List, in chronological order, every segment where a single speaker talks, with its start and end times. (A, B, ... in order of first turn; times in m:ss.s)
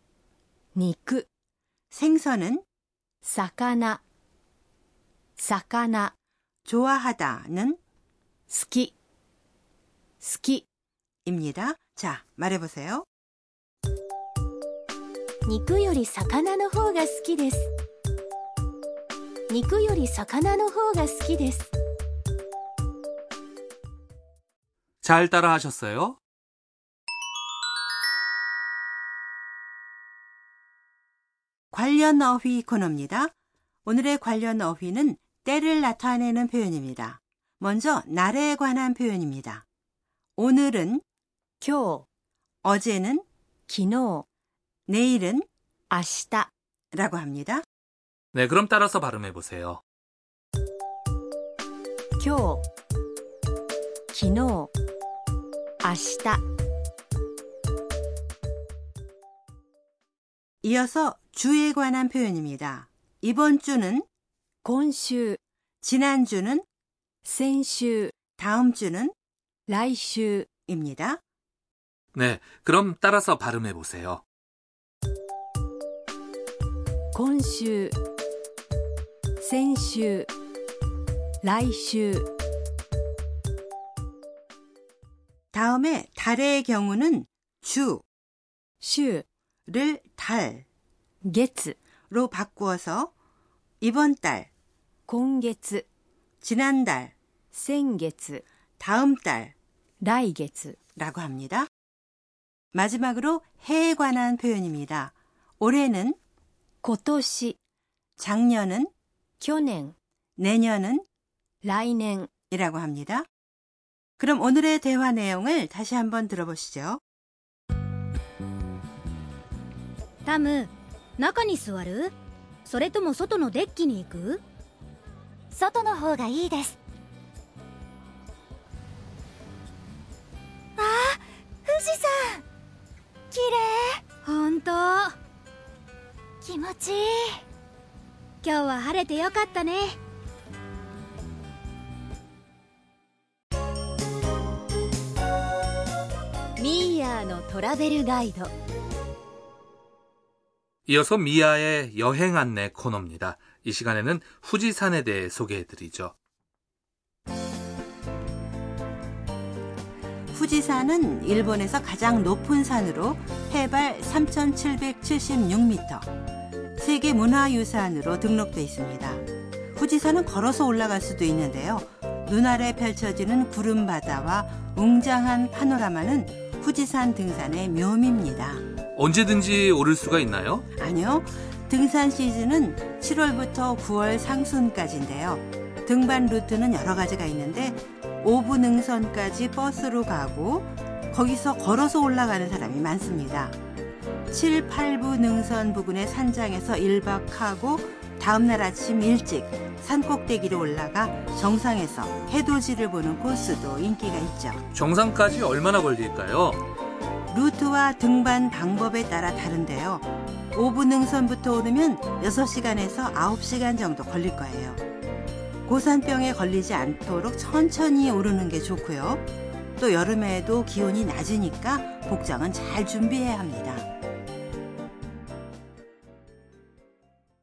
0:00.7-0:01.3 A
0:01.9-0:02.6 B
0:03.2-0:04.0 A
0:05.4-0:06.1 A
0:06.6-0:07.8 B
0:08.5-0:08.9 A
0:10.2-0:10.6 A
0:11.2-0:13.0 B
0:15.4-0:17.7 A
0:19.5-0:21.7 A
0:25.0-0:26.2 C
0:31.7-0:33.3 B
0:33.8-0:39.6 B
0:40.4-0:41.0 B
0:41.6-0:42.1 A
0:42.6-0:43.2 B
0:43.7-0:44.2 A
0:44.9-0:45.5 B
0:45.9-0:46.5 A
0:46.9-0:47.6 B
0:48.3-0:49.8 C
0:52.2-0:52.6 A
0:54.1-0:54.7 A
0:55.8-0:56.4 A
1:00.6-1:04.0 B
1:04.6-1:05.4 A
1:05.8-1:06.6 B
1:07.2-1:08.1 A
1:08.4-1:09.1 B
1:09.7-1:10.5 A
1:10.7-1:11.2 B
1:12.1-1:14.2 C
1:17.1-1:18.0 A
1:19.4-1:20.3 A
1:21.4-1:22.3 A
1:25.5-1:28.0 B
1:28.8-1:29.2 A
1:29.7-1:30.6 B
1:31.2-1:31.8 A
1:32.1-1:33.1 B
1:33.8-1:34.5 B
1:35.1-1:35.8 A
1:36.4-1:37.1 B
1:37.5-1:38.4 A
1:38.8-1:39.5 B
1:40.0-1:40.8 A
1:41.0-1:41.7 B
1:42.7-1:46.2 B
1:46.8-1:47.6 A
1:48.2-1:48.9 B
1:49.4-1:50.0 A
1:50.4-1:51.0 B
1:51.6-1:52.3 A
1:52.5-1:53.3 B
1:54.2-1:57.0 B
2:00.2-2:02.1 D
2:02.6-2:04.4 D
2:05.5-2:06.8 E
2:10.8-2:12.4 E
2:13.3-2:14.1 E
2:14.2-2:15.1 D
2:16.4-2:17.4 E
2:18.4-2:20.0 D
2:26.6-2:28.5 A
2:30.9-2:36.1 C
2:40.3-2:46.1 B
2:46.8-2:49.2 B
2:49.7-2:58.6 B
2:59.0-3:00.6 C
3:00.8-3:13.5 B
3:14.3-3:24.6 B
3:24.7-3:26.6 C
3:27.3-3:34.8 B
3:35.6-3:39.2 B
3:39.8-3:43.9 B